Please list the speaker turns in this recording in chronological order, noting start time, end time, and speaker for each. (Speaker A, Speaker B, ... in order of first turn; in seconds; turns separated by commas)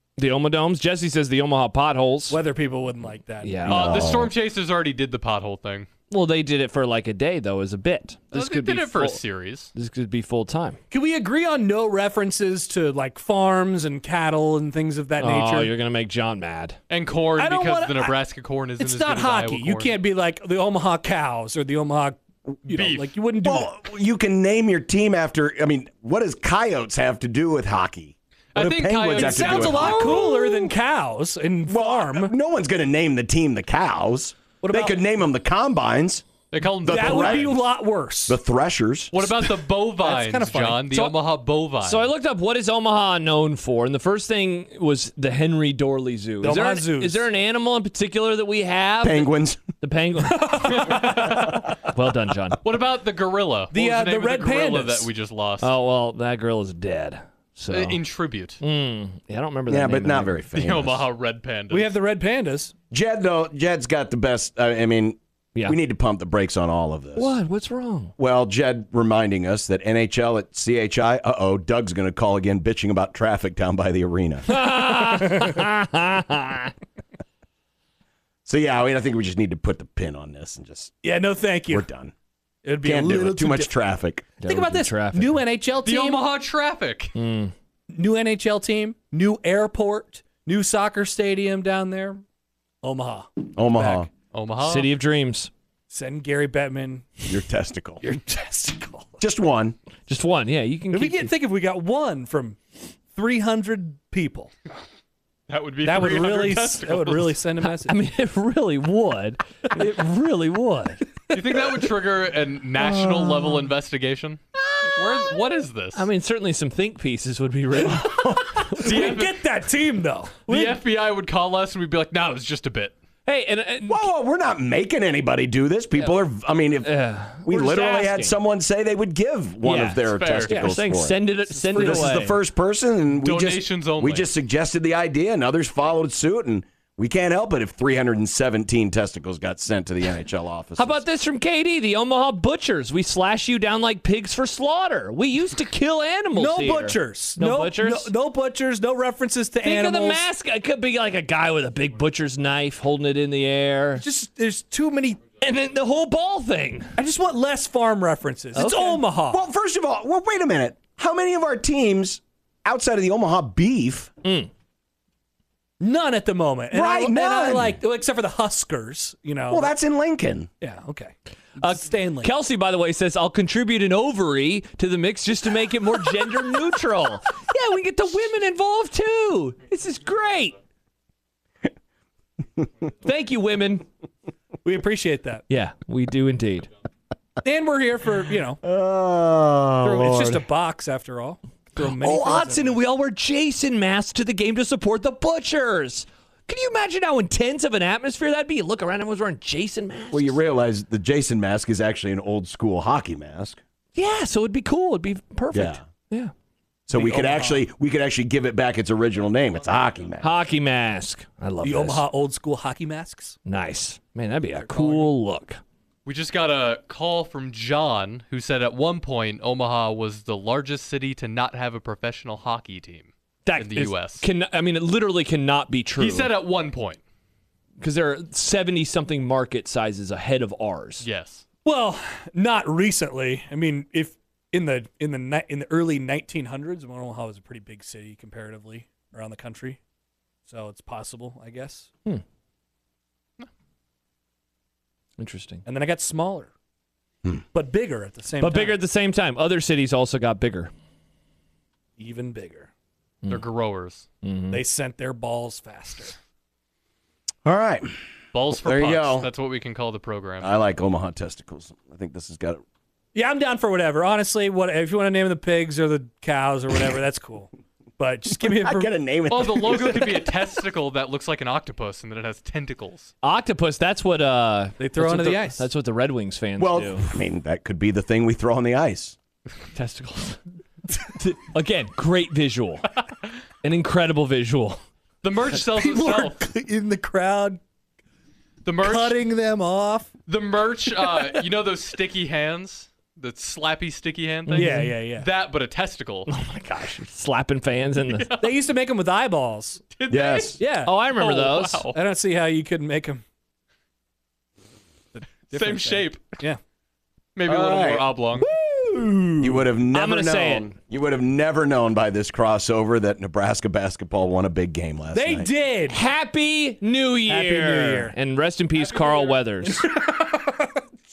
Speaker A: 0.2-2.4, Speaker B: 2.3-3.7, Speaker A: 3.4-4.2, Speaker C: 3.6-4.3, Speaker D: 3.7-5.9, Speaker A: 6.1-9.2, Speaker D: 8.3-9.7, Speaker A: 9.7-10.8, Speaker B: 10.9-15.7, Speaker A: 15.2-16.8, Speaker D: 16.9-20.0, Speaker B: 17.4-18.2, Speaker B: 18.8-23.7, Speaker D: 22.7-23.1, Speaker C: 23.4-30.3, Speaker D: 28.5-30.6, Speaker B: 29.1-32.3, Speaker C: 31.7-36.2, Speaker B: 34.6-35.0, Speaker D: 36.5-37.5, Speaker C: 36.8-37.6, Speaker B: 36.8-38.4, Speaker C: 38.3-39.4, Speaker D: 39.1-42.1, Speaker B: 40.0-41.1, Speaker A: 41.8-52.6, Speaker B: 46.4-47.3, Speaker C: 49.0-49.6, Speaker B: 50.3-51.2, Speaker D: 50.6-51.8, Speaker D: 52.6-55.7, Speaker B: 53.7-55.1, Speaker A: 55.6-58.0, Speaker D: 57.7-58.6, Speaker A: 58.6-60.5, Speaker C: 59.7-61.0, Speaker D: 60.5-62.0, Speaker B: 61.7-62.7, Speaker C: 62.9-67.4, Speaker A: 67.2-68.1, Speaker C: 68.2-74.6, Speaker A: 74.5-76.7, Speaker C: 78.5-80.9, Speaker B: 81.0-81.9, Speaker C: 81.7-82.1, Speaker B: 82.6-83.7, Speaker C: 82.8-84.3, Speaker A: 84.4-85.4, Speaker B: 84.5-86.3, Speaker D: 85.8-87.1, Speaker A: 87.1-87.5, Speaker B: 87.9-92.2, Speaker B: 92.8-94.1, Speaker C: 93.5-94.1, Speaker D: 94.3-94.9, Speaker A: 94.6-95.5, Speaker B: 95.9-97.4, Speaker C: 97.2-98.0, Speaker B: 98.0-99.2, Speaker C: 99.2-99.8, Speaker A: 100.1-101.3, Speaker B: 100.9-102.6, Speaker B: 103.1-104.5, Speaker D: 105.5-107.4, Speaker B: 105.8-108.0, Speaker A: 107.6-111.0, Speaker D: 111.3-116.0, Speaker A: 112.8-113.7, Speaker A: 114.8-115.0, Speaker A: 115.9-119.1, Speaker C: 118.0-118.6, Speaker B: 118.2-120.4, Speaker D: 118.7-119.4, Speaker D: 120.5-123.0, Speaker A: 120.5-120.8, Speaker A: 123.2-124.1, Speaker C: 123.8-126.9, Speaker A: 126.8-128.4, Speaker C: 127.4-131.2, Speaker A: 129.6-132.4, Speaker D: 130.0-130.6, Speaker B: 131.5-132.3, Speaker C: 131.7-141.0, Speaker D: 133.1-134.3, Speaker A: 140.8-148.1, Speaker B: 146.3-150.2, Speaker A: 149.6-154.0, Speaker B: 154.0-155.2, Speaker A: 155.4-157.0, Speaker B: 157.0-159.4, Speaker A: 158.5-159.0, Speaker C: 159.3-164.1, Speaker A: 164.2-164.5, Speaker B: 165.8-169.7, Speaker C: 166.7-167.8, Speaker C: 169.5-170.5, Speaker B: 170.6-172.3, Speaker A: 171.6-180.5, Speaker A: 183.0-183.9, Speaker B: 184.6-185.4, Speaker A: 185.5-186.7, Speaker B: 187.4-188.6, Speaker C: 188.6-190.4, Speaker B: 189.8-192.8, Speaker A: 191.8-200.4, Speaker C: 200.1-203.6, Speaker A: 203.9-206.3, Speaker C: 205.5-205.8, Speaker C: 206.9-210.3, Speaker B: 206.9-207.7, Speaker A: 210.2-212.0, Speaker B: 211.6-213.4, Speaker A: 213.4-215.6, Speaker B: 214.6-215.1, Speaker D: 216.0-224.2, Speaker A: 223.4-226.3, Speaker D: 226.0-227.0, Speaker A: 227.8-231.1, Speaker D: 231.0-231.4, Speaker B: 231.6-239.8, Speaker B: 240.5-241.9, Speaker A: 245.2-245.6, Speaker B: 245.7-246.5, Speaker B: 247.5-248.8, Speaker A: 248.4-250.7, Speaker B: 252.0-252.7, Speaker D: 253.3-254.1, Speaker A: 254.2-254.6, Speaker B: 254.5-256.1, Speaker C: 257.4-257.9, Speaker D: 258.3-260.5, Speaker C: 258.6-259.3, Speaker C: 260.4-262.6, Speaker B: 263.1-268.9, Speaker C: 268.3-270.1, Speaker D: 269.3-273.1, Speaker B: 269.6-270.2, Speaker A: 273.2-277.1, Speaker B: 274.8-275.6, Speaker C: 276.6-279.1, Speaker A: 279.7-280.4, Speaker A: 281.1-282.9, Speaker A: 283.6-284.8, Speaker D: 285.2-286.4, Speaker B: 285.7-287.6, Speaker D: 288.6-289.2, Speaker B: 288.8-290.1, Speaker D: 290.3-296.3, Speaker A: 294.5-294.9, Speaker B: 294.5-295.3, Speaker A: 296.3-298.3, Speaker D: 298.1-298.6, Speaker B: 298.4-299.8, Speaker D: 299.9-302.0, Speaker C: 300.1-300.6, Speaker B: 300.6-300.9, Speaker A: 300.8-301.9, Speaker B: 301.9-303.2, Speaker B: 305.1-306.6, Speaker D: 305.5-306.2, Speaker D: 307.4-308.5, Speaker C: 307.4-308.1, Speaker A: 308.4-310.7, Speaker C: 309.4-315.5, Speaker B: 315.1-316.0, Speaker A: 315.9-319.9, Speaker B: 317.2-318.1, Speaker B: 318.8-320.7